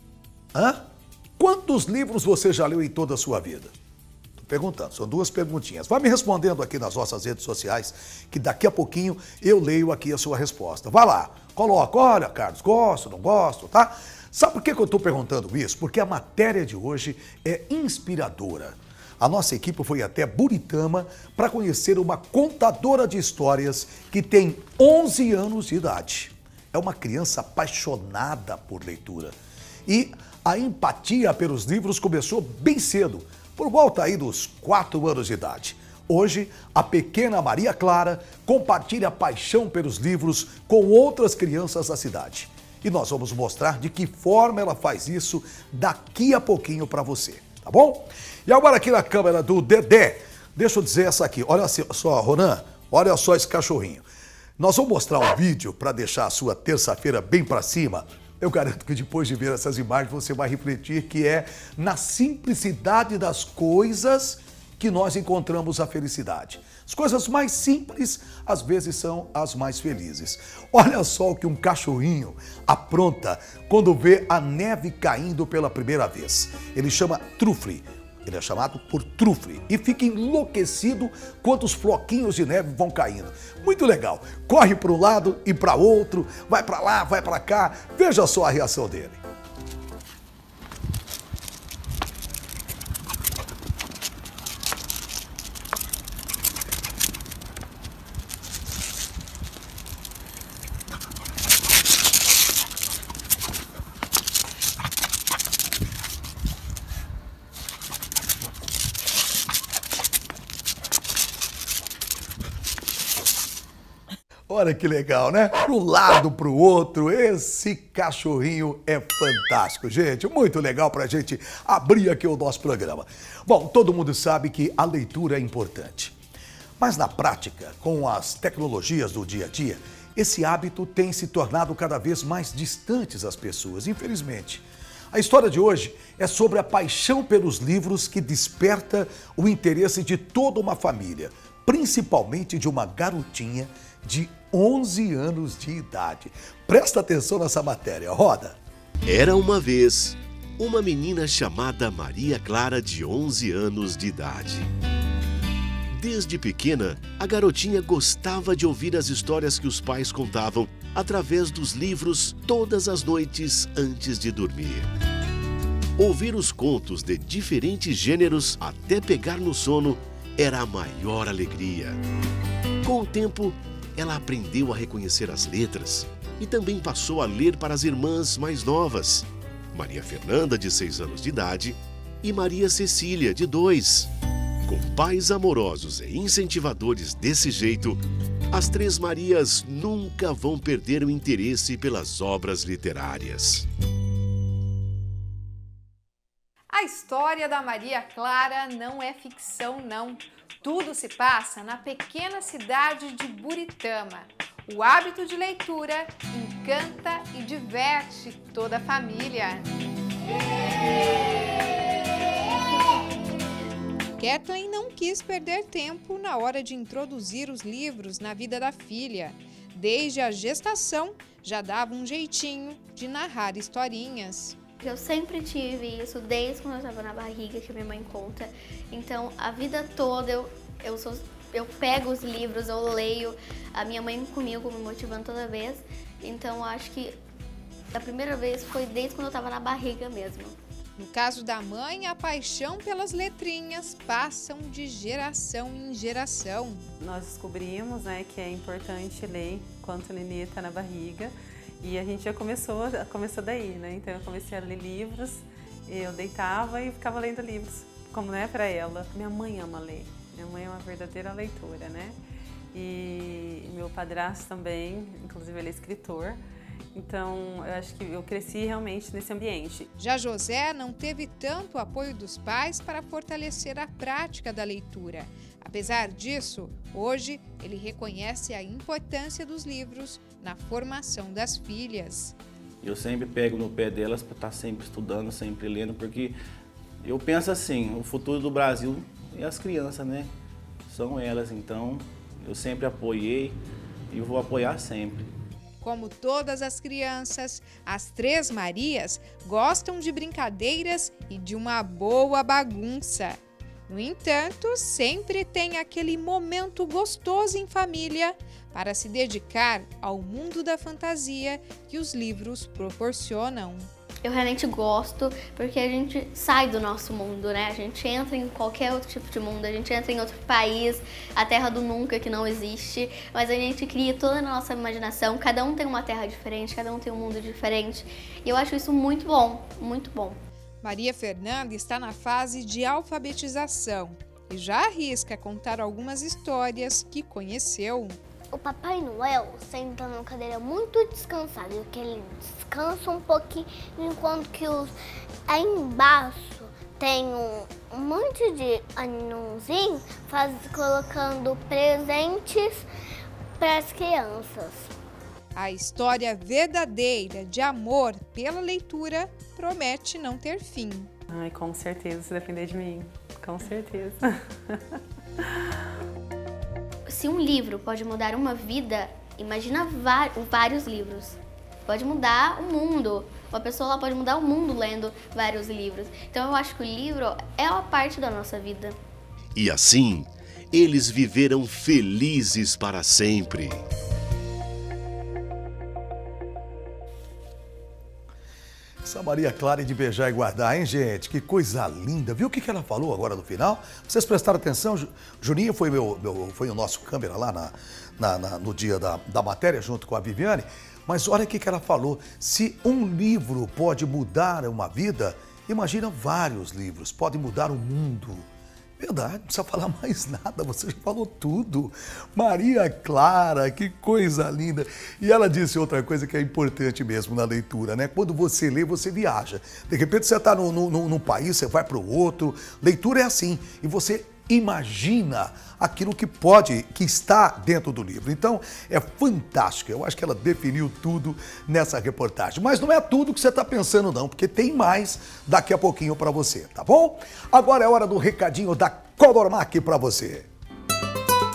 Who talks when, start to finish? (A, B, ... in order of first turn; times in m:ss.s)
0:00.5-0:00.8 A
0:01.4-0:03.7 A
0:04.4-0:29.3 A
0:29.9-0:54.0 A
0:54.6-1:29.2 A
1:54.5-2:06.1 A
2:06.8-2:28.6 A
2:29.0-2:34.7 B
2:35.9-2:44.9 B
2:46.0-2:52.0 B
2:52.8-3:04.1 B
3:04.6-3:08.0 B
3:08.5-3:13.7 B
3:16.7-3:29.6 C
3:34.2-3:44.6 C
3:44.8-3:57.2 D
3:57.9-4:00.6 D
4:01.0-4:06.8 C
4:07.0-4:22.2 E
4:22.7-4:26.4 E
4:26.9-4:29.9 E
4:30.0-4:42.3 C
4:42.8-4:46.4 F
4:47.0-4:50.3 F
4:50.9-4:53.6 F
4:54.1-4:55.3 F
4:55.8-5:13.9 C
5:14.2-5:30.4 D
5:30.8-5:38.2 C
5:38.5-5:44.9 G
5:45.5-5:52.8 G
5:53.6-5:54.9 G
5:55.5-6:01.1 C
6:01.3-6:05.0 E
6:07.1-6:19.0 D
6:19.5-6:23.8 B
6:29.0-6:48.4 A
6:49.0-7:20.5 A